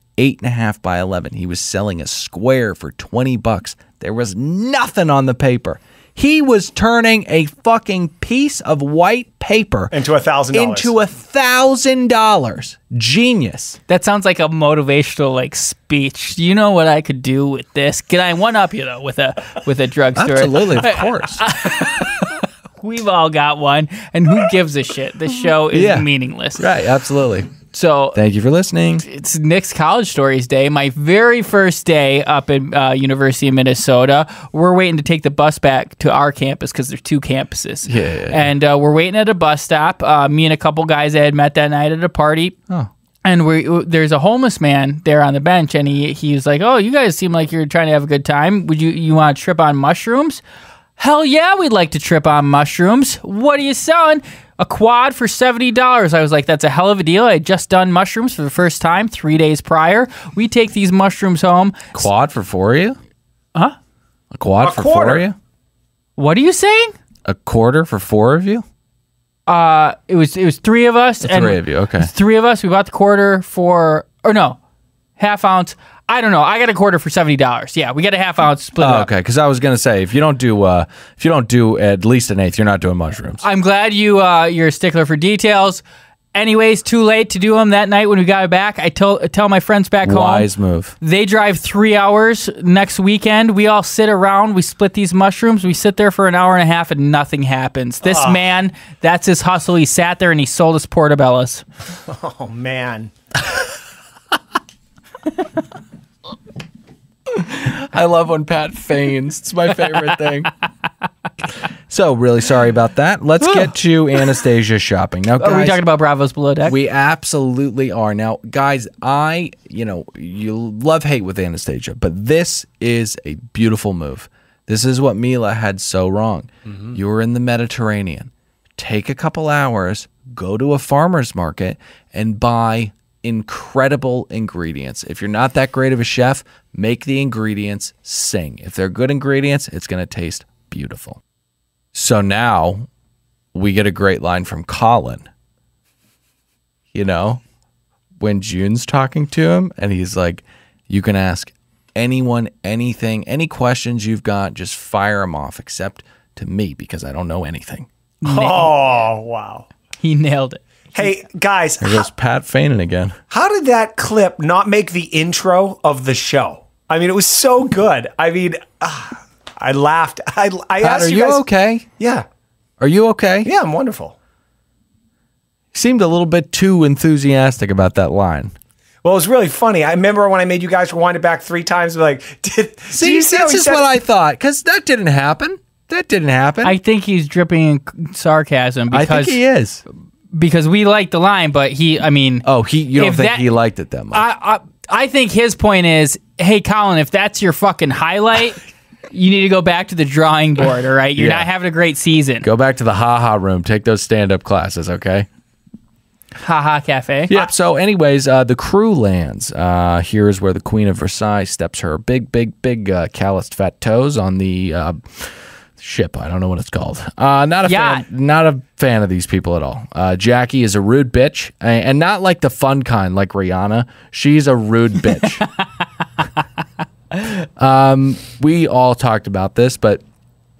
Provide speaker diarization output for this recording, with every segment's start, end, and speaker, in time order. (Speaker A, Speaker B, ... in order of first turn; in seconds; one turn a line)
Speaker A: 0.2-9.9
Speaker B: 9.9-10.9
Speaker A: 10.5-13.8
Speaker C: 13.9-26.6
Speaker A: 20.1-21.4
Speaker A: 25.7-27.5
Speaker C: 27.7-28.2
Speaker A: 28.1-29.0
Speaker C: 29.0-42.6
Speaker A: 37.8-38.5
Speaker C: 43.2-50.4
Speaker C: 51.0-62.0
Speaker A: 61.9-63.0
Speaker A: 64.3-65.3
Speaker B: 64.6-65.2
Speaker C: 66.2-66.9
Speaker A: 67.2-68.6
Speaker C: 69.5-74.6
Speaker A: 71.2-72.1
Speaker C: 75.2-79.1
Speaker A: 78.8-83.4
Speaker C: 83.4-90.5
Speaker A: 90.0-90.9
Speaker C: 91.0-101.6
Speaker B: 98.0-98.4
Speaker B: 102.1-103.1
Speaker A: 107.3-110.5
Speaker A: 111.9-115.8
Speaker C: 115.4-116.8
Speaker A: 116.6-141.2
Speaker A: 141.9-142.9
Speaker A: 143.5-145.3
Speaker A: 146.9-147.4
Speaker A: 148.2-157.9
Speaker C: 158.2-158.7
Speaker B: 158.2-159.7
Speaker C: 160.0-161.1
Speaker B: 160.9-162.1
Speaker A: 161.8-163.2
Speaker B: 163.3-171.4
Speaker A: 170.8-171.8
Speaker B: 172.0-172.2
Speaker A: 172.8-173.5
Speaker B: 173.4-174.1
Speaker A: 175.7-178.5
Speaker B: 179.0-183.9
Speaker A: 182.9-186.7
Speaker C: 186.6-189.4
Speaker A: 188.9-189.8
Speaker C: 190.3-192.4
Speaker A: 192.4-194.2
Speaker C: 193.0-193.4
Speaker C: 194.1-198.6
Speaker C: 199.1-202.5
Speaker A: 201.2-201.5
Speaker A: 202.4-205.3
Speaker C: 206.4-207.3
Speaker A: 207.3-225.4
Speaker C: 217.6-218.0
Speaker C: 225.4-225.7
Speaker A: 227.4-230.0